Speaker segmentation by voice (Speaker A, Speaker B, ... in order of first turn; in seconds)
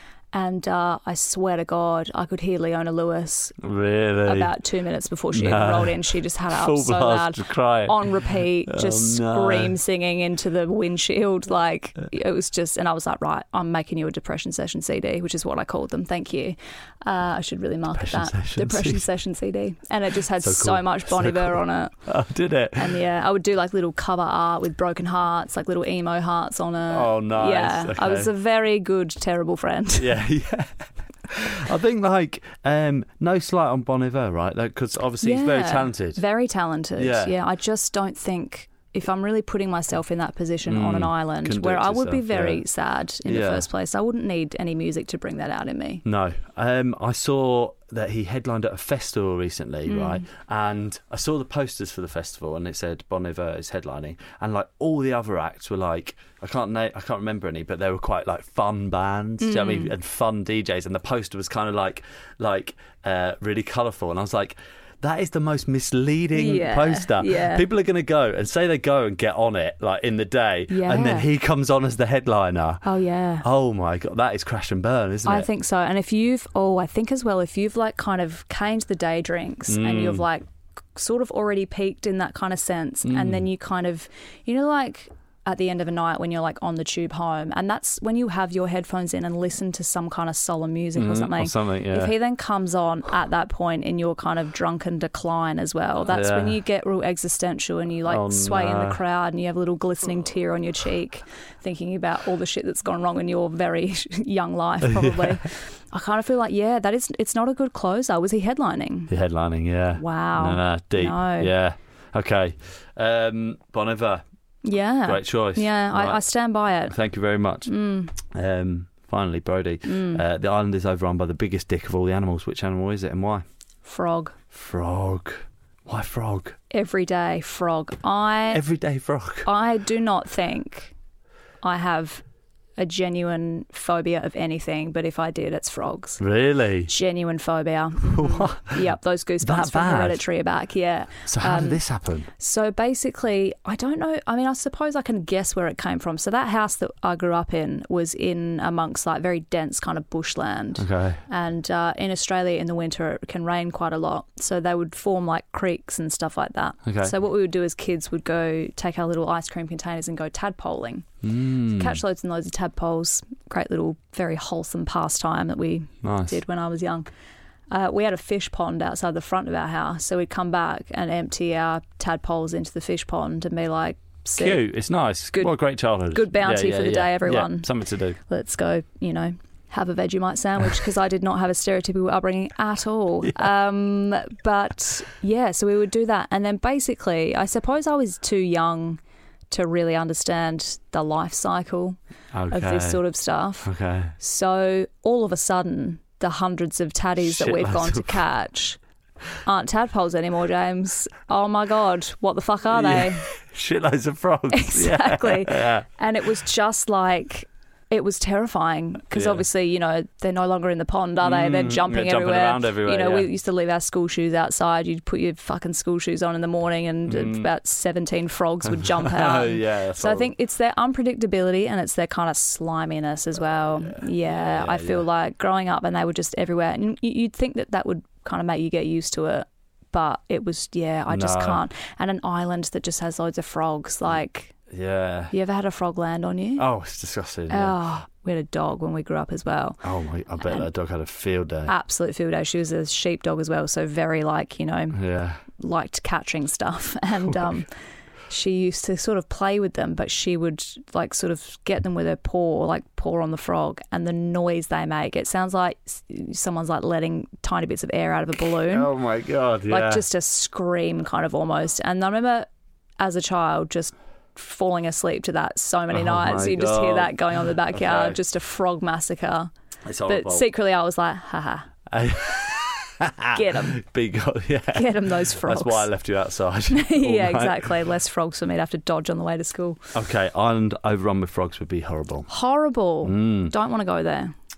Speaker A: 0.3-3.6, 4.2-21.9, 22.7-30.2, 35.2-46.0, 49.9-50.3, 59.4-59.9, 66.3-67.7, 70.7-71.3, 72.8-73.5, 75.3-80.4, 81.0-109.1, 110.0-111.5, 114.7-117.0, 117.7-118.2, 119.9-120.2, 123.8-124.3, 126.7-128.6, 129.4-130.9, 131.6-132.2, 132.8-136.2, 136.9-141.8, 142.3-161.1, 161.7-167.1, 167.7-174.6, 176.1-177.7, 178.2-192.0, 192.5-198.8, 199.4-203.3, 204.5-234.6, 235.3-236.7, 237.5-239.8, 240.4-240.7, 241.7-247.7, 248.3-258.9, 259.7-262.5, 263.0-269.5, 270.1-271.7, 273.3-273.8, 274.7-275.9, 276.7-279.9, 282.3-284.3
Speaker B: 3.6-4.5, 5.3-8.1, 8.7-9.8, 17.9-19.1, 20.4-23.0, 26.9-28.3, 30.0-36.2, 37.0-37.3, 40.7-42.6, 43.3-43.7, 46.0-72.8, 73.4-75.5, 79.7-80.2, 83.0-83.5, 91.0-92.1, 96.1-96.6, 98.1-99.0, 104.8-105.4, 109.1-114.2, 115.1-116.2, 116.9-117.7, 118.2-123.4, 124.5-126.6, 128.5-129.5, 136.2-136.9, 138.0-138.8, 139.4-140.2, 141.3-142.3, 150.8-151.2, 156.8-157.1, 161.2-162.0, 166.0-166.4, 174.4-178.2, 192.3-193.0, 193.6-194.2, 197.2-198.2, 202.7-205.9, 209.1-209.4, 211.2-213.3, 217.1-217.5, 218.7-220.3, 223.8-225.1, 231.1-231.6, 234.7-235.3, 236.6-237.8, 239.8-241.7, 244.9-245.4, 247.3-247.5, 258.6-260.1, 265.9-268.2, 269.9-270.5, 271.9-277.8, 279.9-282.3, 283.0-283.5